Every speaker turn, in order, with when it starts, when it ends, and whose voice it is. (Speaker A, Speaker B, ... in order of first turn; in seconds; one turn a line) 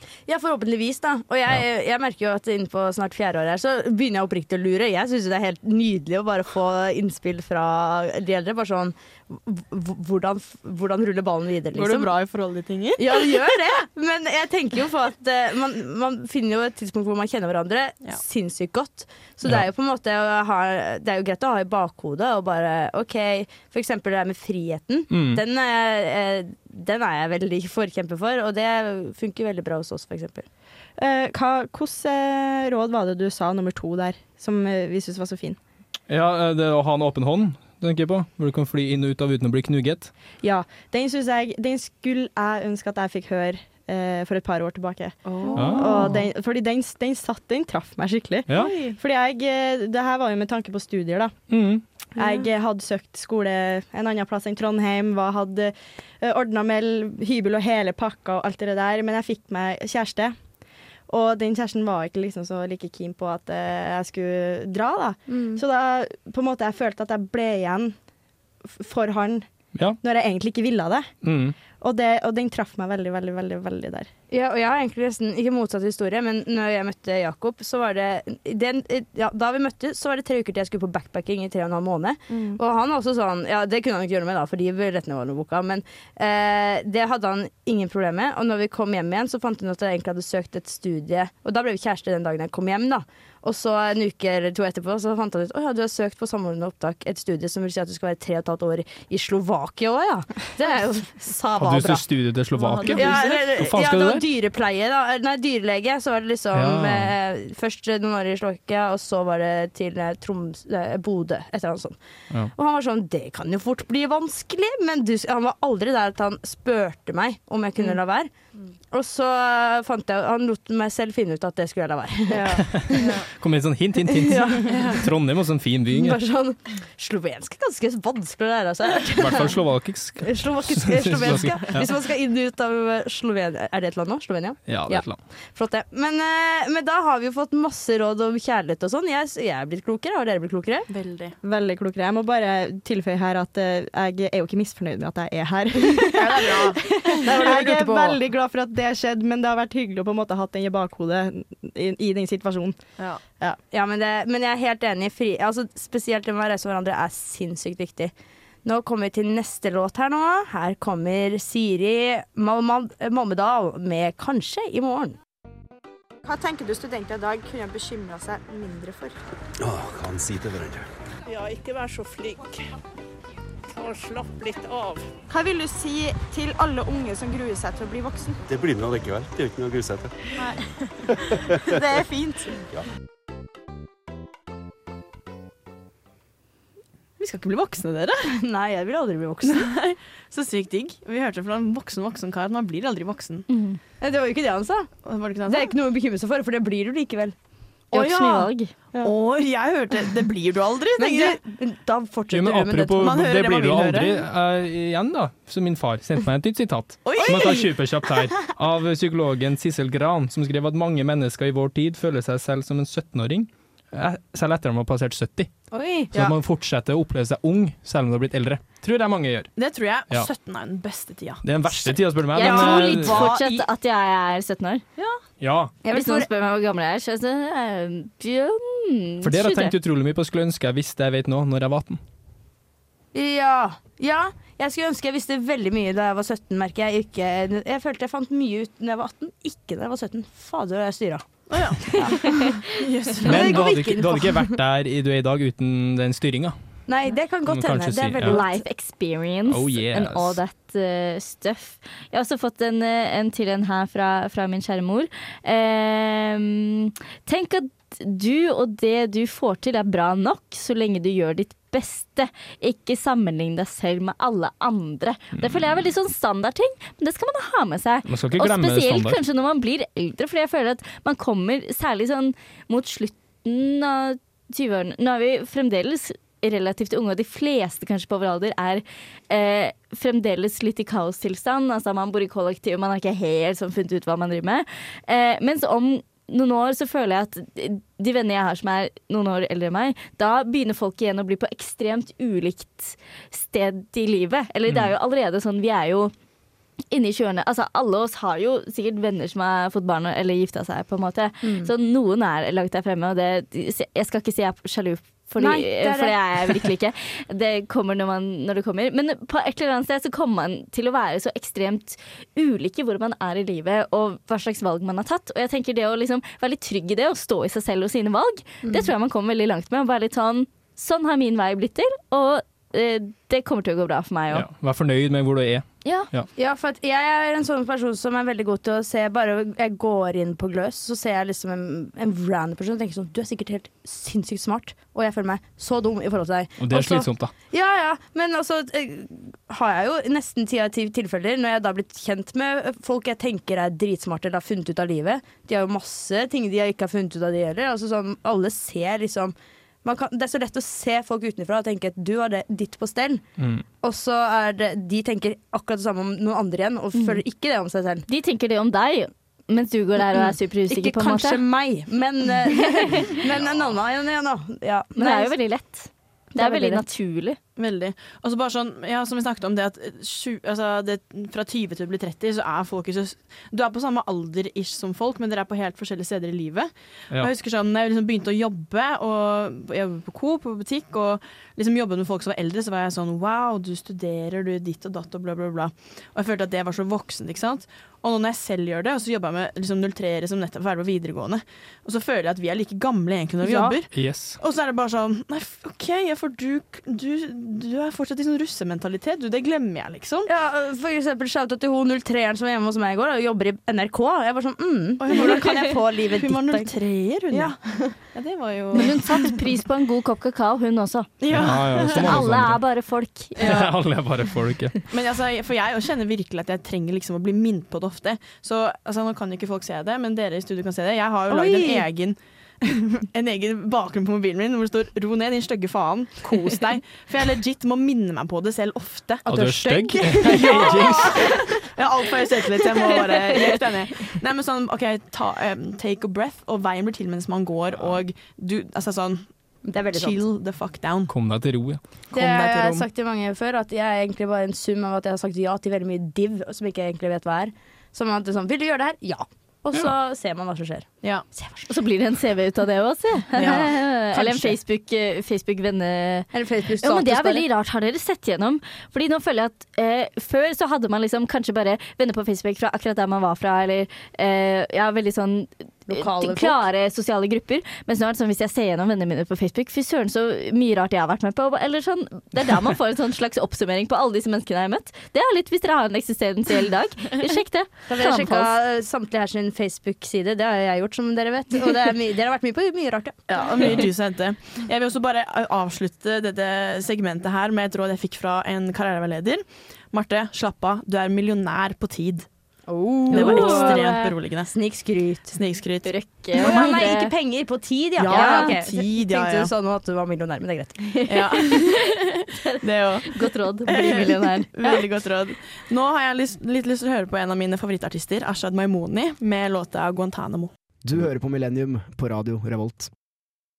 Speaker A: 0.3-12.1
Speaker B: 11.7-13.1
Speaker A: 13.0-30.4
Speaker C: 25.1-25.4
Speaker D: 31.0-35.6
Speaker C: 36.1-40.1
Speaker D: 40.4-51.4
Speaker B: 45.4-45.9
Speaker C: 45.5-46.2
Speaker C: 48.5-48.7
Speaker B: 48.6-48.9
Speaker C: 51.5-51.8
Speaker D: 52.1-60.4
Speaker D: 61.1-67.9
Speaker A: 65.3-65.6
Speaker D: 68.7-69.5
Speaker D: 70.0-71.1
Speaker C: 71.2-71.5
Speaker D: 71.7-74.1
Speaker A: 74.3-102.0
Speaker D: 82.3-82.6
Speaker C: 101.5-104.2
Speaker D: 102.7-103.0
Speaker A: 102.8-112.0
Speaker C: 106.5-107.1
Speaker A: 112.5-118.3
Speaker A: 118.9-123.2
Speaker D: 122.3-122.6
Speaker C: 122.6-126.2
Speaker B: 123.0-123.2
Speaker A: 124.1-125.1
Speaker B: 124.7-125.0
Speaker A: 125.9-129.6
Speaker C: 129.2-131.9
Speaker A: 130.2-140.9
Speaker C: 134.7-135.2
Speaker B: 140.9-141.3
Speaker D: 141.4-152.8
Speaker B: 146.1-147.6
Speaker A: 147.2-148.2
Speaker A: 153.7-158.1
Speaker A: 158.6-165.2
Speaker D: 166.2-169.1
Speaker E: 169.6-170.8
Speaker F: 171.2-172.6
Speaker F: 173.7-175.0
Speaker D: 175.3-178.4
Speaker E: 178.5-180.1
Speaker D: 181.7-182.6
Speaker B: 187.2-188.4
Speaker A: 188.3-189.7
Speaker B: 189.5-193.5
Speaker G: 193.5-193.8
Speaker A: 194.0-194.9
Speaker B: 195.0-195.7
Speaker A: 195.4-197.3
Speaker G: 197.9-198.7
Speaker A: 197.9-199.1
Speaker B: 199.0-201.4
Speaker A: 201.0-203.2
Speaker C: 202.3-215.5
Speaker B: 203.0-204.2
Speaker B: 207.0-207.7
Speaker A: 215.7-216.1
Speaker C: 216.1-219.5
Speaker B: 219.6-221.4
Speaker C: 221.4-223.3
Speaker G: 222.3-224.8
Speaker A: 222.4-223.6
Speaker C: 225.4-225.7
Speaker A: 225.8-226.3
Speaker G: 225.9-229.7
Speaker C: 229.2-232.0
Speaker A: 233.1-242.6
Speaker B: 241.5-241.8
Speaker B: 242.8-243.5
Speaker A: 243.2-244.6
Speaker C: 243.2-246.6
Speaker A: 246.9-248.6
Speaker C: 247.4-248.4
Speaker G: 248.2-296.1
Speaker C: 249.5-250.4
Speaker C: 265.4-265.8
Speaker C: 268.0-269.2
Speaker C: 294.7-294.9
Speaker G: 296.9-324.4
Speaker A: 301.4-301.7
Speaker A: 305.4-306.4
Speaker A: 318.6-318.9
Speaker C: 324.3-326.3
Speaker G: 325.8-326.1
Speaker A: 326.4-358.0
Speaker C: 336.6-337.3
Speaker C: 353.4-353.6
Speaker G: 358.1-361.4
Speaker A: 360.1-365.4
Speaker G: 364.9-367.4
Speaker A: 366.3-366.8
Speaker B: 367.6-400.3
Speaker A: 393.4-393.8
Speaker C: 393.9-394.4
Speaker A: 400.2-406.7
Speaker B: 405.0-409.3
Speaker A: 407.3-407.8
Speaker G: 408.7-413.4
Speaker B: 411.2-412.2
Speaker C: 411.3-412.7
Speaker B: 413.4-413.7
Speaker C: 413.4-414.9
Speaker B: 414.9-429.2
Speaker A: 421.3-421.9
Speaker C: 429.2-431.2
Speaker A: 429.2-431.4
Speaker B: 430.2-441.1
Speaker A: 439.6-440.2
Speaker C: 441.1-442.1
Speaker B: 442.1-442.8
Speaker A: 442.1-451.7
Speaker G: 451.7-456.3
Speaker B: 453.3-453.7
Speaker A: 453.5-454.5
Speaker A: 456.3-457.4
Speaker G: 456.8-478.5
Speaker A: 465.9-466.6
Speaker A: 477.9-483.8
Speaker B: 483.3-492.3
Speaker A: 492.7-495.4
Speaker B: 493.1-494.6
Speaker G: 493.1-494.1
Speaker B: 495.2-496.6
Speaker G: 495.8-497.1
Speaker A: 496.4-500.9
Speaker B: 498.0-499.5
Speaker G: 498.1-498.6
Speaker G: 501.0-501.6
Speaker B: 501.1-501.8
Speaker B: 502.6-510.5
Speaker G: 503.1-504.7
Speaker H: 510.8-512.9